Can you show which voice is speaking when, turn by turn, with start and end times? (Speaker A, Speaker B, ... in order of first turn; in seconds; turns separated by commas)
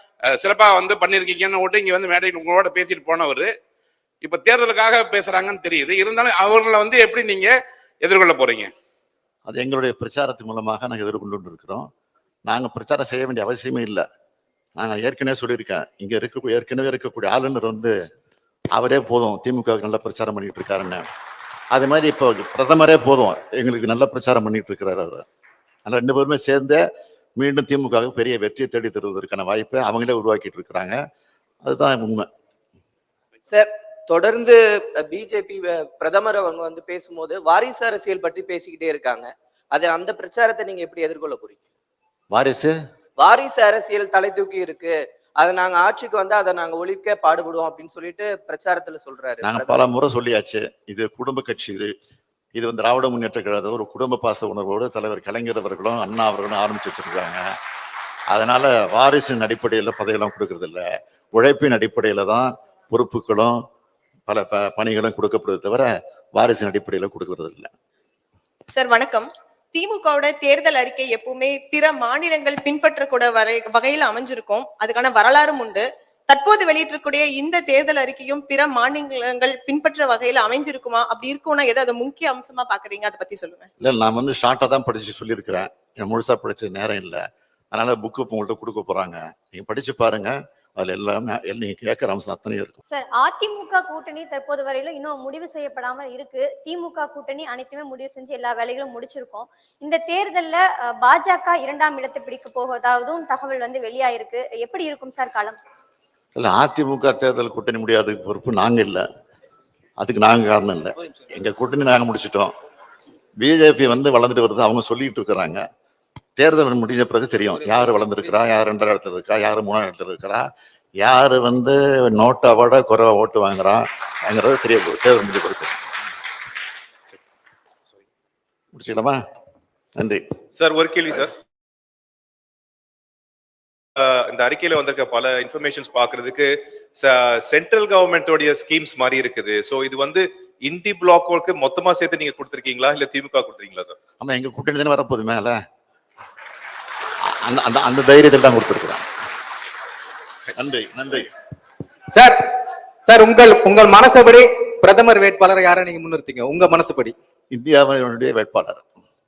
Speaker A: 0.3-3.5, Speaker A: 4.2-8.7, Speaker B: 9.5-11.9, Speaker B: 12.5-14.0, Speaker B: 14.8-17.9, Speaker B: 18.7-21.1, Speaker B: 21.7-25.2, Speaker B: 25.9-26.8, Speaker B: 27.4-31.0, Speaker B: 31.6-32.3, Speaker C: 33.5-41.6, Speaker B: 42.3-42.7, Speaker C: 43.2-49.9, Speaker B: 49.4-51.9, Speaker B: 52.5-57.5, Speaker B: 58.3-63.6, Speaker B: 64.3-67.7, Speaker D: 68.7-83.7, Speaker B: 83.8-92.8, Speaker E: 92.9-105.6, Speaker B: 106.3-109.0, Speaker B: 110.0-112.5, Speaker B: 113.4-115.6, Speaker B: 116.4-120.5, Speaker B: 121.0-125.8, Speaker B: 128.8-129.2, Speaker B: 130.0-130.2, Speaker F: 130.6-131.3, Speaker F: 134.0-143.9, Speaker B: 144.2-145.6, Speaker B: 147.2-149.1, Speaker B: 150.6-151.3, Speaker G: 152.2-152.4, Speaker G: 153.1-157.1, Speaker B: 157.5-158.8